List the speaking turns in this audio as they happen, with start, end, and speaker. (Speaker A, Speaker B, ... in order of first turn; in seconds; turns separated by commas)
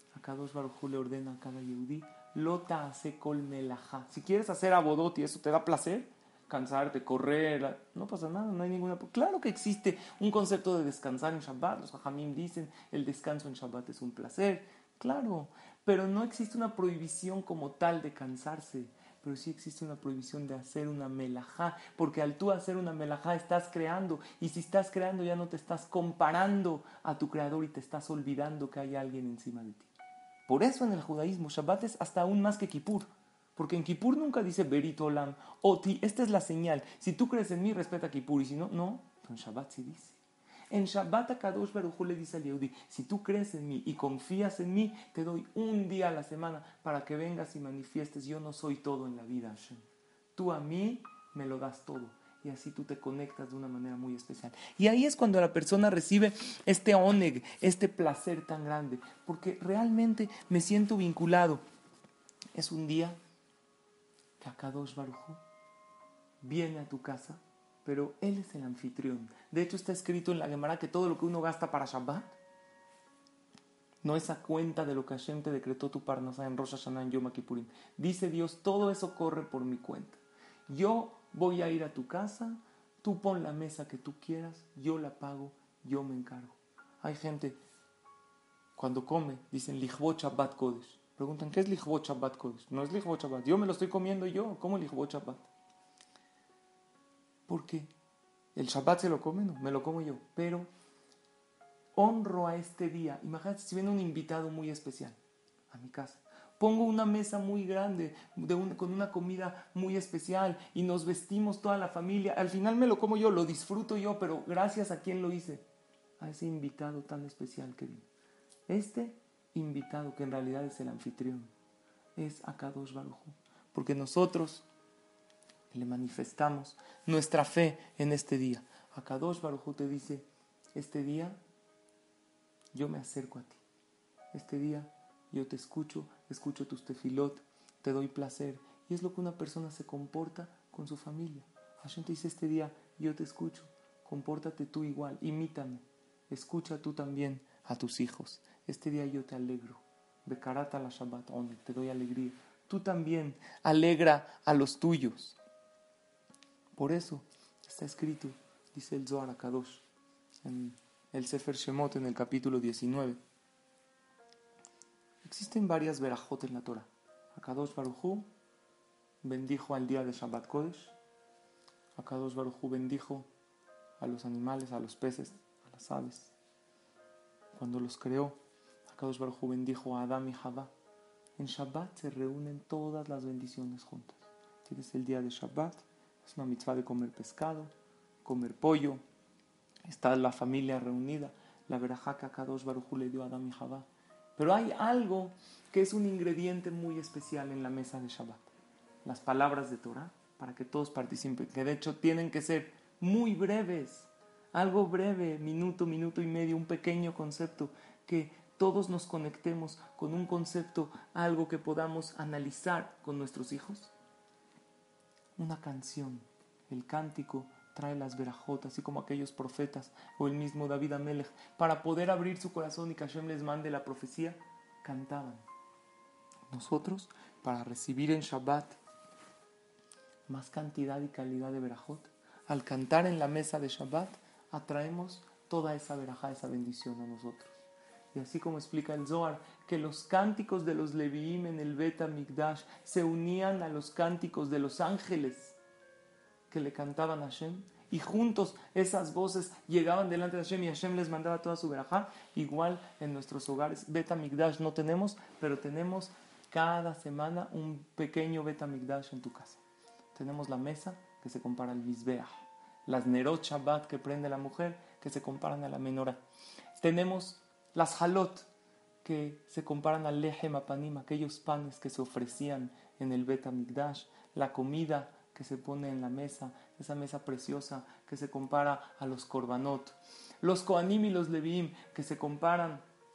Speaker A: 0.1-29.9, Speaker A: 30.5-40.2, Speaker A: 40.7-61.6, Speaker A: 62.5-63.2, Speaker A: 64.4-65.4, Speaker A: 66.4-72.4, Speaker A: 74.0-87.6, Speaker A: 88.8-95.5, Speaker A: 97.5-97.9, Speaker A: 98.5-100.7, Speaker A: 102.0-105.2, Speaker A: 105.7-115.7, Speaker A: 116.2-118.1, Speaker A: 118.7-121.5, Speaker A: 122.2-124.7, Speaker A: 125.7-131.4, Speaker A: 132.7-133.6, Speaker A: 134.3-155.4, Speaker A: 156.8-159.8, Speaker A: 160.4-163.2, Speaker A: 165.2-168.3, Speaker A: 169.2-170.9, Speaker A: 172.0-173.3, Speaker A: 174.0-176.3, Speaker A: 177.5-180.7, Speaker A: 181.4-187.7, Speaker A: 188.2-189.0, Speaker A: 189.8-198.5, Speaker A: 199.1-213.9, Speaker A: 215.4-225.5, Speaker A: 226.5-228.8, Speaker A: 230.3-237.5, Speaker A: 238.1-245.6, Speaker A: 246.5-259.6, Speaker A: 260.1-266.2, Speaker A: 266.8-268.5, Speaker A: 269.0-282.9